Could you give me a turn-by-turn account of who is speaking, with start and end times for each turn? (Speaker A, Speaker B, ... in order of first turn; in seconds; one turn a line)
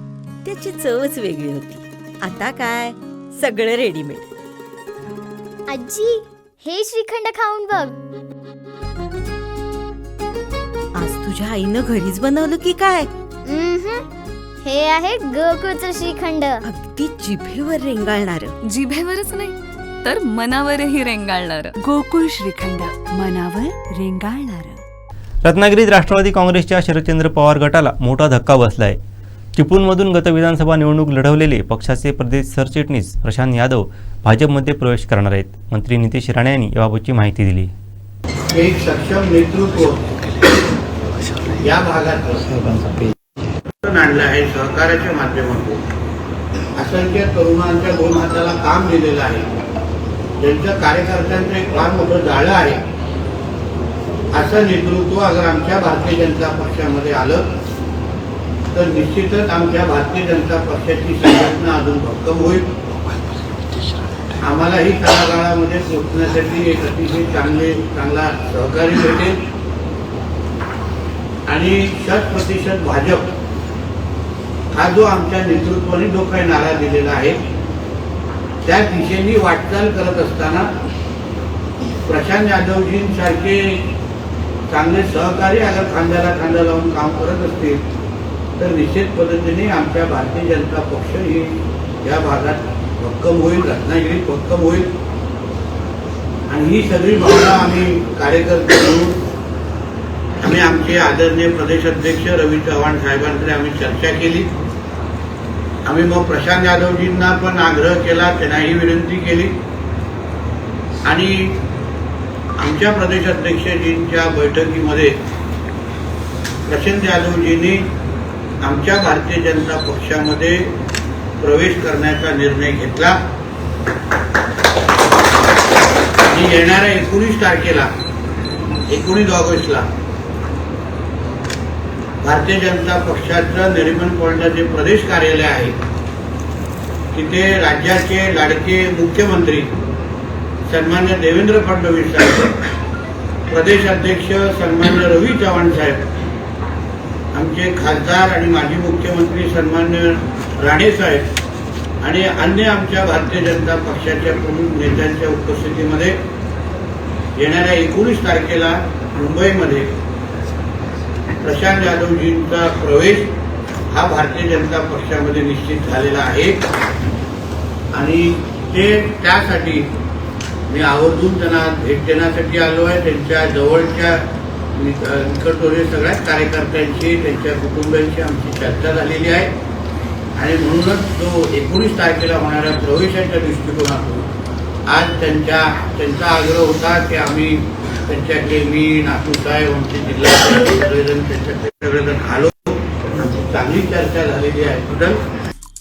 Speaker A: 0.5-4.3
Speaker B: 5.7-8.0
Speaker A: 11.0-13.1
Speaker B: 13.5-14.1
Speaker B: 14.6-16.6
Speaker A: 16.6-18.6
Speaker C: 18.7-21.8
Speaker D: 21.9-24.6
Speaker A: 24.3-24.6
Speaker E: 25.4-29.0
Speaker E: 29.6-37.7
Speaker F: 38.5-40.0
Speaker F: 41.6-42.7
Speaker F: 43.8-45.8
Speaker F: 46.8-49.5
Speaker F: 50.4-52.8
Speaker F: 54.3-57.5
Speaker F: 58.7-62.7
Speaker F: 64.4-69.4
Speaker F: 71.5-73.3
Speaker F: 74.7-77.4
Speaker F: 78.6-80.7
Speaker F: 82.0-83.8
Speaker F: 84.7-87.8
Speaker F: 88.6-94.9
Speaker F: 96.5-99.2
Speaker F: 100.4-104.5
Speaker F: 105.8-109.6
Speaker F: 111.0-111.6
Speaker F: 112.6-115.2
Speaker F: 116.7-117.9
Speaker F: 118.6-120.7
Speaker F: 121.4-123.2
Speaker F: 126.3-127.9
Speaker F: 128.9-129.9
Speaker F: 132.2-135.8
Speaker F: 137.1-139.7
Speaker F: 140.7-142.5
Speaker F: 143.5-146.0
Speaker F: 147.3-151.3
Speaker F: 152.0-156.2
Speaker F: 157.4-159.9
Speaker F: 161.4-163.3
Speaker F: 163.9-166.7
Speaker F: 167.9-169.9
Speaker F: 170.7-174.2
Speaker F: 174.8-179.5
Speaker F: 180.4-184.3
Speaker F: 184.9-195.2